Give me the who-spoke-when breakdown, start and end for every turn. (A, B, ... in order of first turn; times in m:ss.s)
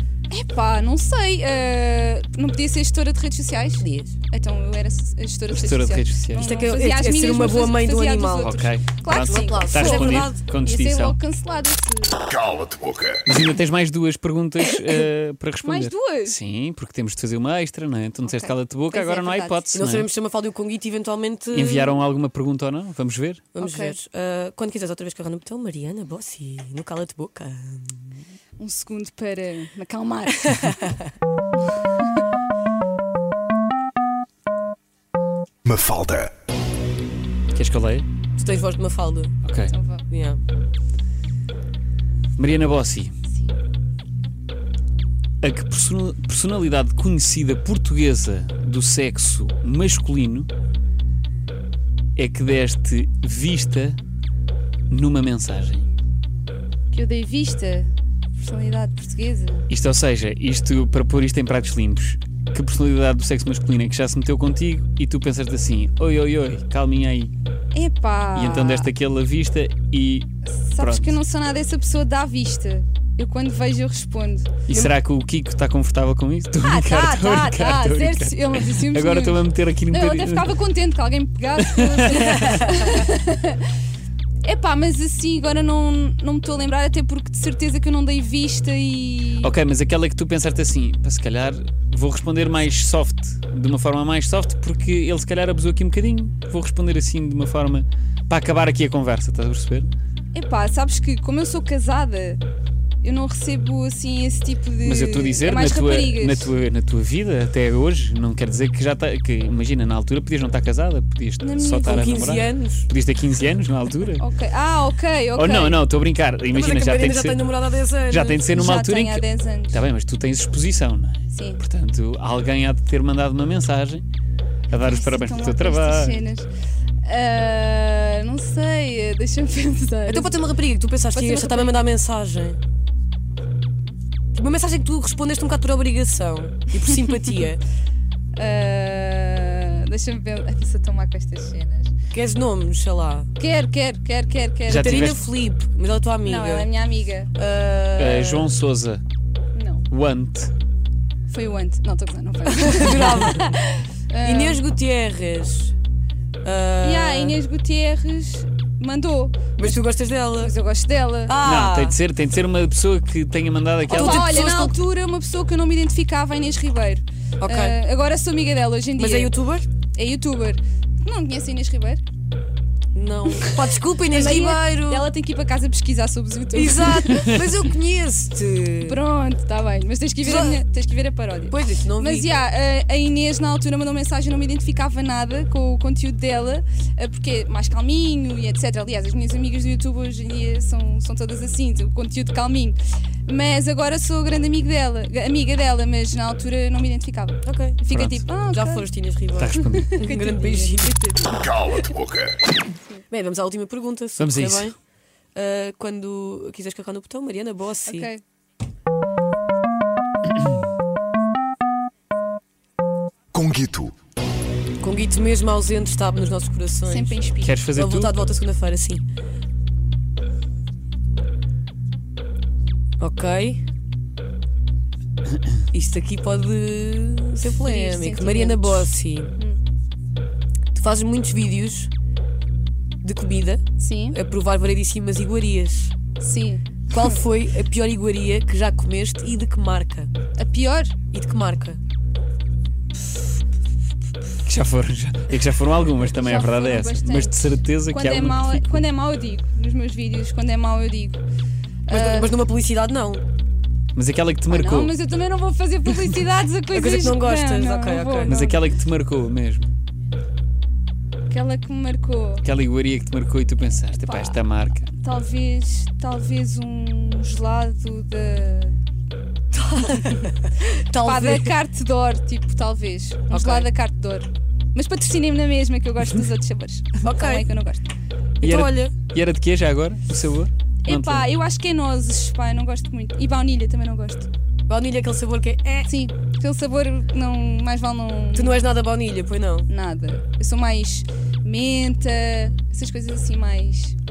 0:00.3-0:12.2 A
0:03.8-0:04.1 B
0:05.5-0:06.5 C
0:06.4-0:08.6 B
0:08.4-0:11.2 C
0:09.2-0:10.4 B
0:12.4-0:13.2 D
0:13.2-0:20.1 C
0:14.6-0:15.0 A
0:15.6-0:16.4 A
0:18.2-0:19.6 A
0:19.7-0:21.9 B
0:21.5-0:23.5 C
0:23.6-0:28.1 B
0:23.6-0:24.0 A
0:28.6-0:30.8 A
0:30.5-0:31.1 B
0:31.7-0:32.2 A
0:35.6-0:36.3 D
0:37.5-0:38.1 C
0:38.4-0:39.3 B
0:39.4-0:39.7 C
0:39.7-0:40.0 A
0:40.1-0:40.4 B
0:42.4-0:43.1 C
0:45.4-0:50.5 C
0:52.2-0:54.0 C
0:54.9-0:55.9 C
0:56.9-0:59.7 A
0:59.7-1:07.3 C
1:07.7-1:08.9 A
1:08.4-1:11.2 C
1:10.6-1:14.5 A
1:14.7-1:20.5 C
1:16.6-1:23.7 A
1:21.6-1:22.7 C
1:22.5-1:23.0 B
1:24.4-1:29.5 A
1:29.4-1:39.9 C
1:40.3-1:42.4 A
1:43.0-1:46.5 A
1:44.8-1:54.2 C
1:51.4-1:52.4 A
1:51.8-1:52.9 B
1:54.2-1:55.8 A
1:55.4-1:57.5 C
1:56.5-1:58.4 B
1:58.1-2:04.0 C
1:58.5-1:59.9 A
2:01.3-2:01.6 A
2:04.7-2:06.2 C
2:04.8-2:06.5 A
2:07.0-2:10.4 A
2:10.1-2:12.6 B
2:11.2-2:11.8 A
2:14.3-2:17.6 B
2:18.4-2:21.9 A
2:22.1-2:23.3 B
2:23.4-2:25.2 A
2:24.7-2:25.2 C
2:24.7-2:26.7 B
2:26.2-2:27.3 A
2:27.3-2:28.5 B
2:28.0-2:29.0 C
2:29.6-2:29.8 A
2:29.9-2:30.5 C
2:31.3-2:34.6 A
2:32.5-2:33.6 B
2:34.2-2:35.7 B
2:36.4-2:37.4 B
2:36.8-2:39.7 A
2:39.6-2:40.5 B
2:40.4-2:41.4 A
2:41.3-2:42.0 B
2:41.4-2:44.5 C
2:43.9-2:44.8 B
2:43.9-2:49.3 A
2:47.4-2:47.8 B
2:49.0-2:49.6 B
2:49.9-2:52.0 A
2:52.9-2:55.1 B
2:53.3-2:57.3 A
2:56.5-2:59.0 B
2:58.8-3:18.9 A
3:00.2-3:00.6 B
3:01.5-3:02.3 B
3:17.4-3:17.8 B
3:17.9-3:18.2 C
3:18.5-3:21.7 B
3:19.4-3:20.0 C
3:19.6-3:22.1 A
3:23.1-3:24.8 B
3:24.2-3:24.7 C
3:25.3-3:28.1 B
3:27.8-3:28.2 A
3:33.3-3:33.9 D
3:34.8-3:37.2 B
3:36.8-3:37.7 A
3:37.4-3:38.2 C
3:37.7-3:39.0 B
3:43.0-3:43.6 B
3:45.7-3:49.3 B
3:47.4-3:49.6 A
3:50.7-3:51.9 B
3:53.0-3:55.9 B
3:53.8-3:54.2 A
3:56.2-3:57.2 A
3:56.9-4:00.1 B
4:00.4-4:00.9 A
4:01.1-4:01.8 B
4:04.4-4:08.8 C
4:06.1-4:11.2 A
4:11.9-4:12.4 A
4:11.9-4:13.2 B
4:13.9-4:14.9 C
4:14.5-4:18.7 A
4:16.7-4:18.4 B
4:18.3-4:19.7 C
4:21.3-4:22.4 A
4:22.4-4:24.9 C
4:23.7-4:24.4 A
4:25.0-4:28.8 A
4:29.7-4:30.2 A
4:29.8-4:31.5 B
4:31.0-4:37.9 A
4:33.3-4:33.7 B
4:37.0-4:37.5 B
4:38.4-4:41.3 C
4:38.4-4:38.9 B
4:40.8-4:44.3 A
4:44.7-4:45.9 B
4:45.8-4:48.7 A
4:48.3-4:49.7 B
4:49.7-4:54.0 A